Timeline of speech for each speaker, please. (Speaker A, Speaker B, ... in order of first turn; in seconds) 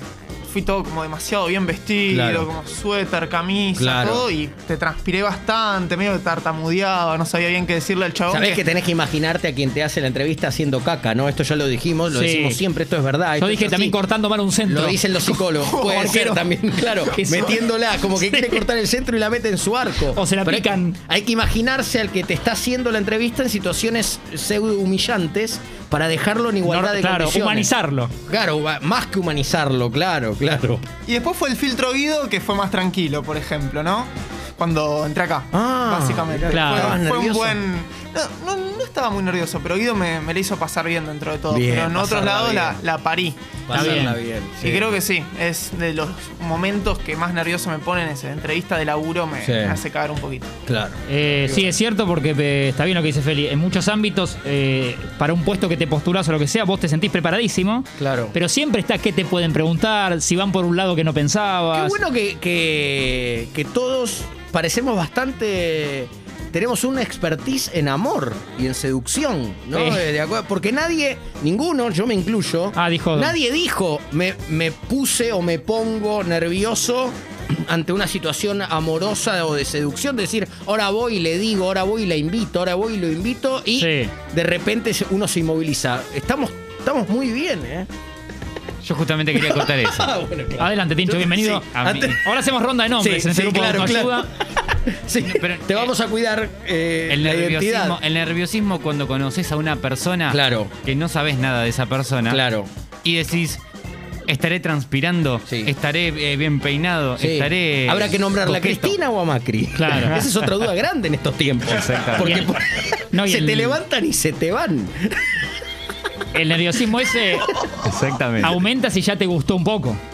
Speaker A: 0.5-8.6, 31.1-44.1, 44.6-50.5
Speaker B: 2.1-2.5, 3.8-4.3, 8.3-13.9, 14.7-27.7, 28.3-30.9, 35.5-37.6, 41.5-42.8, 43.7-44.9, 49.4-49.8, 50.7-51.7, 58.0-58.4, 61.7-87.9, 89.3-92.2, 93.0-98.0, 100.3-100.8, 102.3-102.7, 105.5-105.7, 107.2-115.1
Speaker C: 12.1-12.6, 13.4-16.4, 17.1-17.6, 18.1-18.6, 20.1-21.0, 26.7-28.1, 36.5-37.0, 43.7-44.2, 51.1-62.0, 69.7-70.0, 72.8-73.3, 83.8-84.1, 90.6-94.3, 109.8-110.2, 112.2-112.5, 113.1-113.8, 116.3-117.5, 118.4-120.0
Speaker D: 88.8-90.1, 91.7-92.1, 95.2-95.9, 97.1-102.4, 103.0-103.6, 104.3-109.0, 109.9-110.2, 111.7-112.4, 117.8-118.6